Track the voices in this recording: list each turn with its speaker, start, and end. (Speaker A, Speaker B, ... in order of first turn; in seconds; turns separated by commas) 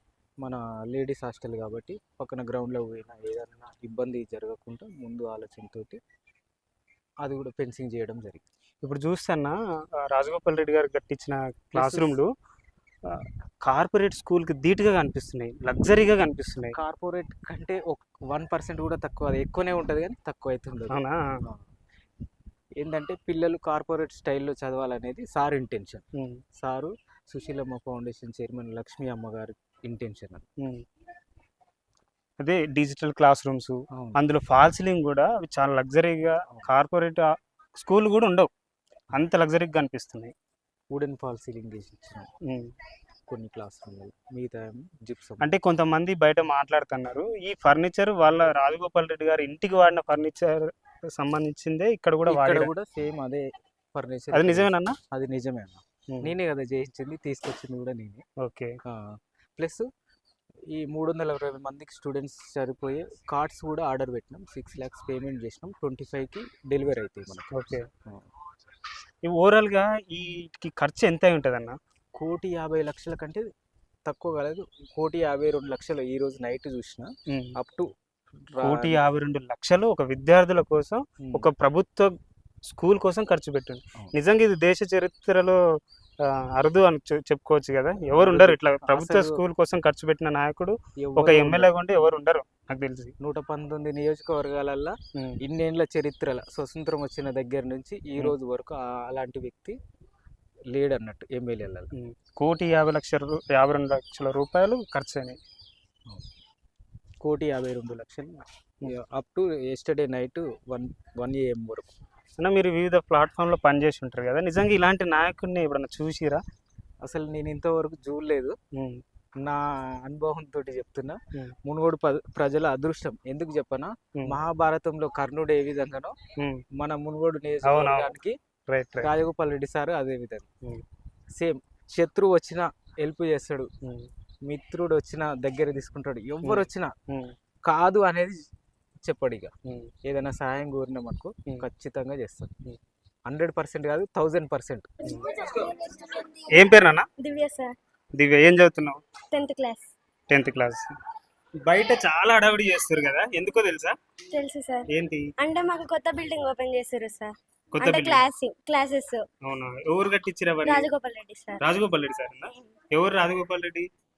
Speaker A: 0.4-6.0, Speaker A: 7.2-8.4, Speaker B: 8.8-9.5, Speaker B: 10.0-12.3, Speaker A: 11.7-12.2, Speaker B: 13.1-16.7, Speaker A: 16.7-21.6, Speaker B: 20.9-21.2, Speaker A: 22.8-26.0, Speaker A: 26.6-30.4, Speaker B: 32.4-37.2, Speaker A: 33.9-34.2, Speaker B: 37.8-38.5, Speaker B: 39.1-40.3, Speaker A: 40.9-42.3, Speaker A: 43.3-45.5, Speaker B: 45.4-52.7, Speaker A: 52.2-58.2, Speaker B: 54.3-55.0, Speaker B: 58.4-58.7, Speaker A: 58.9-59.8, Speaker A: 60.7-68.2, Speaker B: 67.5-67.8, Speaker B: 69.2-71.8, Speaker A: 72.2-73.5, Speaker A: 74.0-77.9, Speaker B: 77.3-77.5, Speaker A: 78.5-79.0, Speaker B: 78.6-82.1, Speaker A: 81.2-81.5, Speaker B: 82.7-85.6, Speaker B: 86.5-93.1, Speaker A: 88.1-89.4, Speaker A: 91.0-91.7, Speaker A: 93.2-99.8, Speaker A: 100.7-101.9, Speaker B: 101.9-105.4, Speaker A: 107.2-111.9, Speaker B: 112.4-116.4, Speaker A: 117.0-118.5, Speaker B: 118.7-119.0, Speaker A: 119.4-126.2, Speaker B: 126.4-126.6, Speaker A: 126.8-128.3, Speaker B: 127.6-128.1, Speaker B: 128.7-129.1, Speaker A: 129.0-130.5, Speaker A: 131.3-133.7, Speaker A: 134.4-136.9, Speaker B: 136.4-137.3, Speaker A: 137.7-138.4, Speaker A: 139.0-139.5, Speaker B: 139.7-139.9, Speaker A: 140.0-142.5, Speaker A: 143.3-145.2, Speaker B: 145.0-145.4, Speaker C: 145.0-146.5, Speaker B: 146.5-147.1, Speaker C: 147.2-147.7, Speaker B: 148.2-149.0, Speaker C: 149.3-149.9, Speaker B: 150.3-150.9, Speaker B: 151.6-153.9, Speaker C: 154.3-154.9, Speaker B: 154.9-155.3, Speaker C: 155.4-159.2, Speaker B: 157.7-158.2, Speaker B: 159.4-160.9, Speaker C: 160.6-161.6, Speaker B: 161.6-163.8